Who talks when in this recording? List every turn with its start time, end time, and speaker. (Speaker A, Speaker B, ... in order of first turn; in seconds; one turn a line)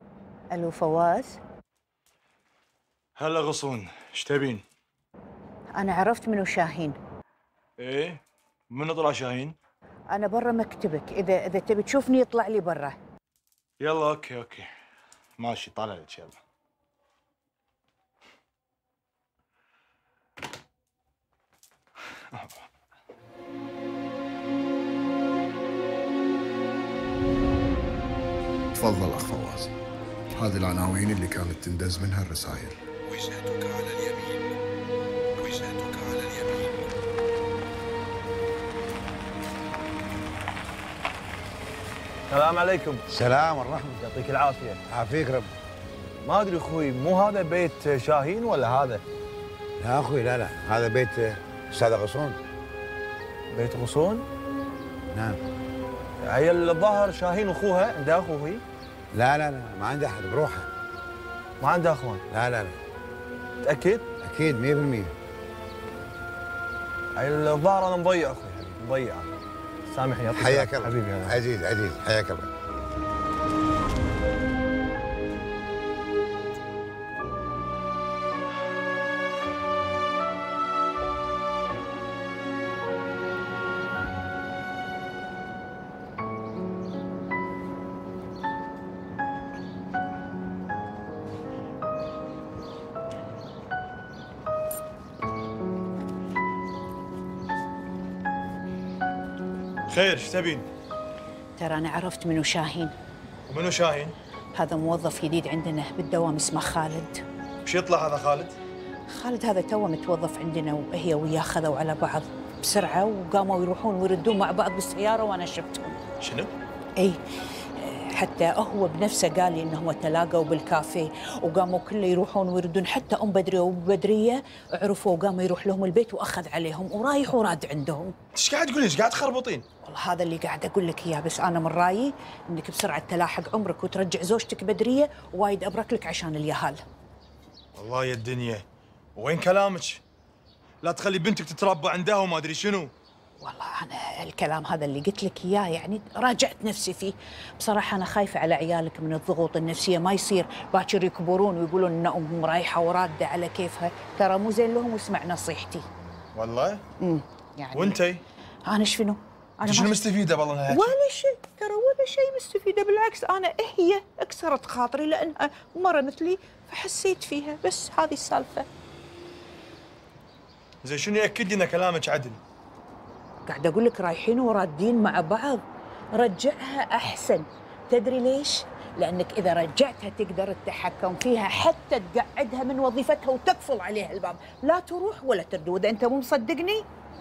Speaker A: 0.5-1.4
Speaker B: 3.1-4.6
Speaker A: 5.7-7.0
Speaker B: 7.8-9.6
Speaker A: 10.1-13.0
Speaker B: 13.8-14.7
Speaker B: 15.4-16.4
Speaker C: 28.7-29.7
Speaker C: 30.3-32.8
Speaker D: 33.2-34.2
Speaker D: 35.5-36.6
Speaker C: 35.8-36.1
Speaker E: 42.3-43.0
Speaker F: 43.1-44.0
Speaker E: 44.0-44.8
Speaker F: 44.9-45.5
Speaker E: 46.2-49.0
Speaker F: 49.8-52.4
Speaker E: 53.5-54.2
Speaker F: 55.1-55.4
Speaker E: 56.2-58.6
Speaker F: 59.1-60.7
Speaker E: 61.6-62.2
Speaker F: 62.3-62.8
Speaker E: 63.6-64.0
Speaker F: 64.2-65.1
Speaker E: 67.2-69.3
Speaker E: 69.9-71.4
Speaker F: 70.3-72.5
Speaker B: 99.9-100.7
Speaker A: 101.6-102.9
Speaker B: 103.5-104.2
Speaker A: 104.5-107.2
Speaker B: 107.6-108.5
Speaker A: 109.1-116.0
Speaker B: 116.2-116.5
Speaker A: 117.8-128.1
Speaker B: 128.3-129.7
Speaker A: 129.8-136.8
Speaker B: 137.8-138.7
Speaker B: 139.2-140.0
Speaker B: 140.8-142.9
Speaker A: 143.4-155.8
Speaker B: 156.3-156.8
Speaker A: 157.0-158.0
Speaker B: 157.7-158.2
Speaker A: 158.7-160.0
Speaker B: 159.6-161.0
Speaker A: 160.7-168.7
Speaker B: 170.8-172.4
Speaker A: 173.4-175.6
Speaker A: 176.1-186.8